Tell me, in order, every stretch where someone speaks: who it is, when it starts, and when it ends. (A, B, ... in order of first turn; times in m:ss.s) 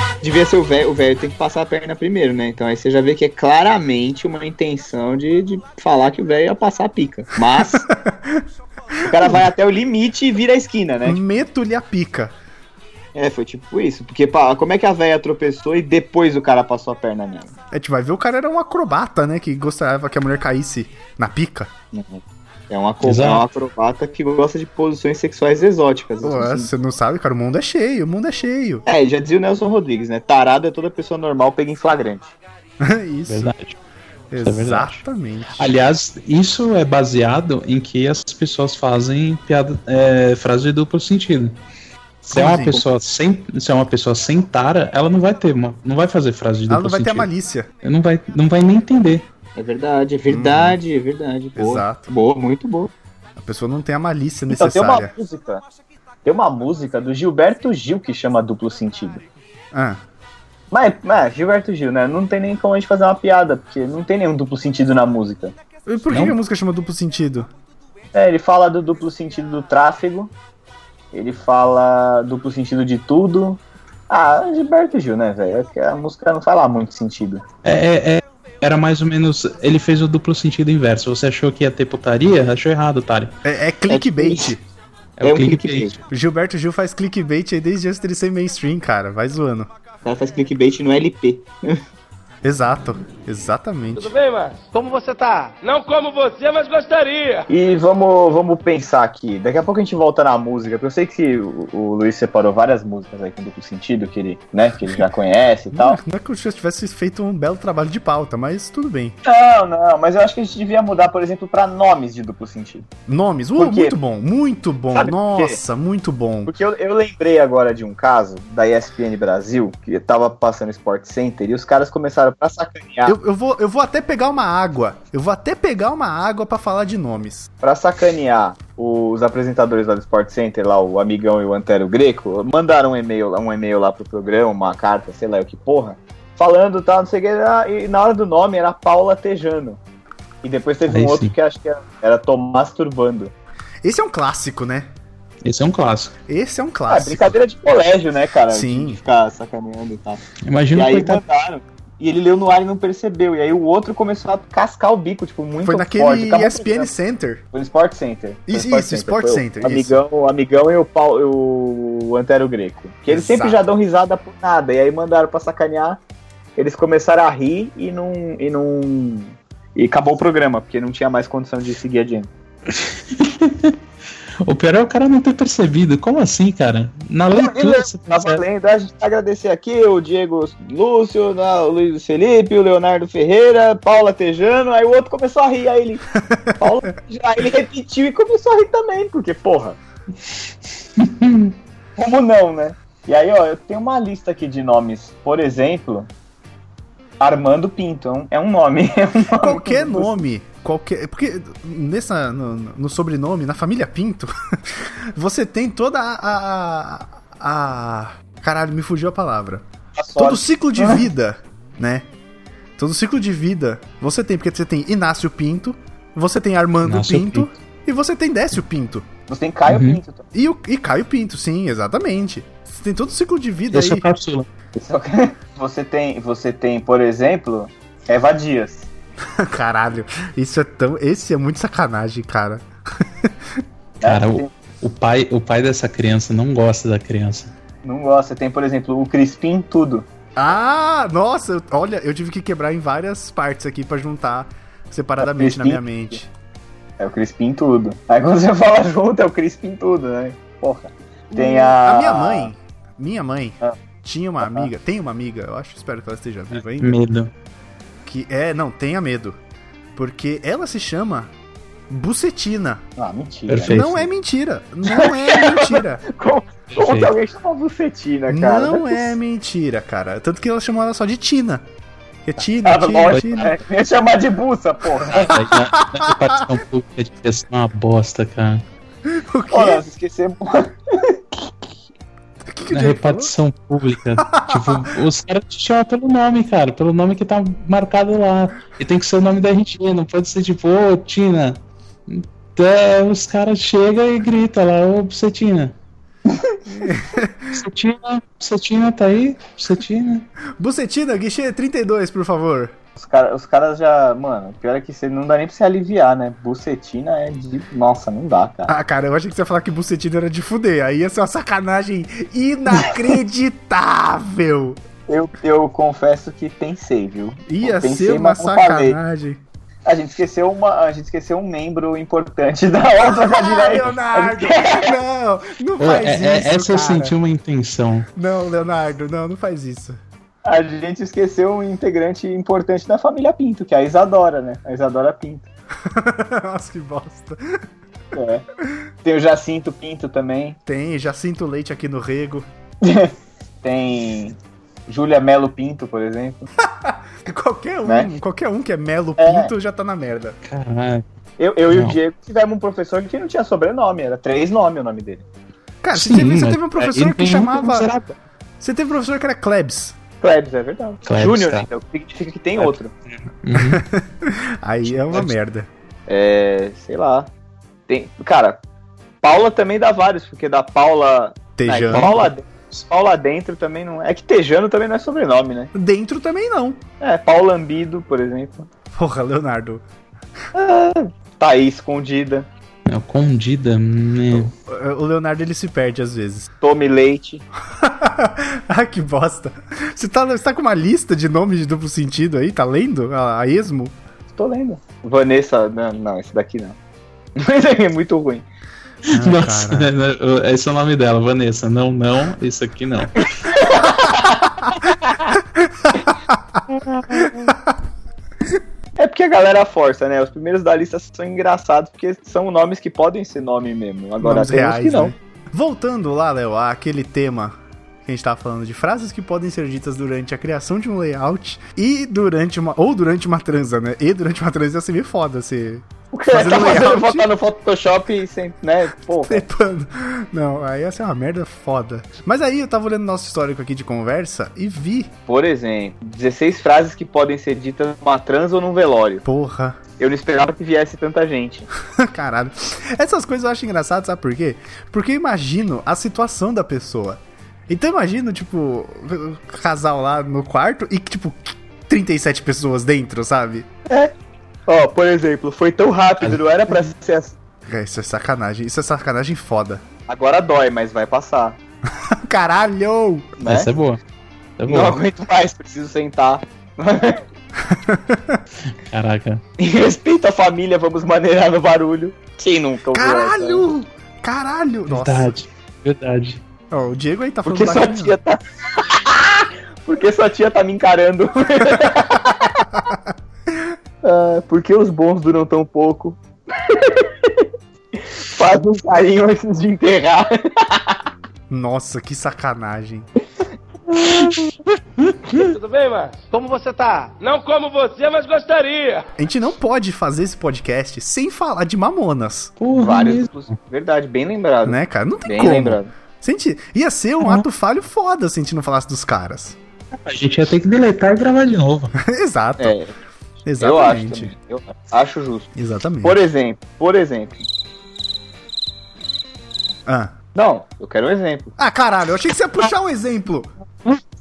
0:00.2-0:07.9 A
0:07.6-0:08.4 B
0:09.0-0:11.2 A
0:09.1-0:09.4 B
0:11.0-0:12.3 B
0:13.1-0:17.5 A
0:17.7-0:21.7 B
0:21.9-0:26.7 A
0:23.0-0:23.4 C
0:26.2-0:28.8 B
0:28.8-0:32.3 A
0:32.8-0:33.5 B
0:33.3-0:33.8 C
0:34.3-0:35.7 B
0:34.4-0:35.0 C
0:35.5-0:41.6 C
0:42.2-0:47.3 C
0:42.3-0:42.8 B
0:46.7-0:47.7 B
0:47.8-0:49.2 C
0:49.6-0:52.9 A
0:50.3-0:50.8 B
0:51.6-0:52.1 B
0:53.4-0:55.1 B
0:54.5-0:55.6 A
0:56.2-0:59.2 A
0:59.7-1:00.0 B
1:00.7-1:05.5 A
1:05.9-1:07.5 B
1:08.1-1:10.3 A
1:11.1-1:17.4 A
1:17.6-1:23.3 C
1:23.4-1:24.6 B
1:23.9-1:24.5 A
1:25.2-1:26.0 C
1:25.2-1:25.9 A
1:26.1-1:29.7 B
1:30.0-1:31.8 A
1:32.4-1:34.1 B
1:34.0-1:37.5 D
1:37.5-1:46.0 A
1:45.7-1:49.2 B
1:49.2-1:52.8 A
1:53.1-1:56.5 B
1:53.6-1:54.0 A
1:54.9-1:55.6 A
1:56.4-2:03.2 A
2:03.0-2:07.5 B
2:07.6-2:19.8 A
2:20.4-2:23.3 A
2:20.9-2:21.3 C
2:23.8-2:24.9 B
2:25.4-2:26.1 C
2:26.3-2:27.4 B
2:26.9-2:30.2 A
2:28.5-2:29.0 B
2:30.4-2:31.2 C
2:30.7-2:36.9 A
2:35.6-2:37.4 B
2:37.5-2:46.0 A
2:38.5-2:40.0 B
2:43.1-2:43.6 B
2:46.6-2:52.3 A
2:52.7-2:53.8 C
2:54.4-2:58.4 C
2:57.4-3:06.0 A
3:06.1-3:06.7 B
3:06.6-3:09.8 A
3:11.0-3:11.5 C
3:12.0-3:16.1 A
3:17.2-3:20.2 A
3:19.4-3:29.6 B
3:30.0-3:31.0 A
3:30.2-3:32.1 B
3:32.8-3:39.1 B
3:36.8-3:37.5 C
3:39.3-3:40.2 A
3:39.7-3:40.0 C
3:40.3-3:44.0 B
3:43.7-3:44.5 C
3:44.7-3:48.9 A
3:49.3-3:53.6 B
3:54.0-3:54.5 A
3:54.0-3:57.5 C
3:57.8-4:00.0 A
4:00.4-4:06.3 B
4:05.2-4:06.1 A
4:07.0-4:12.5 A
4:11.3-4:17.0 B
4:14.4-4:14.7 A
4:16.8-4:17.3 C
4:18.0-4:19.4 B
4:20.0-4:21.3 B
4:21.9-4:22.8 B
4:23.0-4:24.0 A
4:23.5-4:23.9 C
4:23.6-4:26.0 B
4:24.8-4:29.2 A
4:26.7-4:27.1 C
4:28.3-4:31.6 B
4:32.2-4:33.5 B
4:32.6-4:35.4 A
4:35.1-4:38.6 C
4:35.3-4:36.5 B
4:39.0-4:39.8 B
4:39.5-4:41.5 A
4:42.4-4:43.3 B
4:42.7-4:55.7 C
4:44.2-4:44.9 B
4:56.3-4:56.8 A
4:56.8-4:57.6 B
4:57.5-5:00.3 C
5:00.6-5:02.7 B
5:03.0-5:08.7 A
5:08.7-5:14.8 B
5:15.1-5:19.0 A
5:17.5-5:19.4 B
5:19.8-5:25.0 A
5:23.1-5:27.1 B
5:25.8-5:28.1 C
5:28.2-5:30.0 B
5:30.4-5:35.5 A
5:35.8-5:37.6 B
5:38.1-5:38.4 A
5:39.0-5:40.6 A
5:40.6-5:42.4 B
5:42.8-5:44.4 A
5:44.9-5:46.5 A
5:46.6-5:50.4 B
5:47.8-5:48.1 A
5:49.2-5:49.5 A
5:50.4-5:51.0 C
5:51.4-5:55.2 A
5:51.7-5:52.0 C
5:55.8-5:57.9 B
5:55.9-5:58.1 C
5:58.6-6:00.0 B
6:00.2-6:02.9 A
6:01.0-6:01.7 C
6:03.3-6:03.8 C
6:03.5-6:05.7 B
6:06.1-6:07.3 A
6:07.9-6:08.6 A
6:09.2-6:15.7 A
6:11.6-6:12.2 B
6:11.9-6:12.3 C
6:15.7-6:16.8 B
6:17.0-6:18.7 A
6:18.9-6:19.8 B
6:20.5-6:22.5 A
6:22.9-6:24.5 C
6:24.3-6:26.5 B
6:26.6-6:27.4 A
6:27.7-6:33.9 B
6:34.3-6:36.8 A
6:37.4-6:38.4 A
6:39.1-6:43.2 C
6:39.1-6:39.9 B
6:43.2-6:45.4 A
6:45.5-6:47.7 B
6:49.0-6:55.1 A
6:54.2-7:07.3 B
7:06.1-7:09.4 A
7:09.1-7:15.1 B
7:15.3-7:19.2 A
7:19.2-7:19.8 B
7:20.0-7:21.7 A
7:21.9-7:33.7 B
7:34.7-7:37.4 A
7:37.6-7:39.8 B
7:40.1-7:41.6 A
7:41.9-7:43.3 B
7:43.4-7:43.7 A
7:43.4-7:44.0 C
7:44.6-7:45.0 C
7:44.7-7:47.2 A
7:47.6-7:48.4 B
7:48.7-7:49.4 C
7:49.6-7:53.7 A
7:52.9-7:55.3 B
7:54.9-7:56.4 C
7:56.7-7:58.2 B
7:57.4-8:02.6 A
8:02.7-8:03.7 B
8:04.0-8:07.5 A
8:08.0-8:11.0 A
8:11.5-8:13.1 B
8:13.9-8:15.5 C
8:15.3-8:19.0 D
8:19.2-8:22.5 B
8:22.6-8:23.5 C
8:22.7-8:25.9 A
8:24.6-8:29.6 B
8:30.0-8:31.9 C
8:32.0-8:32.8 B
8:32.6-8:32.9 A
8:33.4-8:34.3 B
8:33.6-8:35.5 A
8:35.5-8:36.2 B
8:36.0-8:37.5 A
8:39.8-8:40.1 B
8:40.3-8:41.5 A
8:41.6-8:43.5 B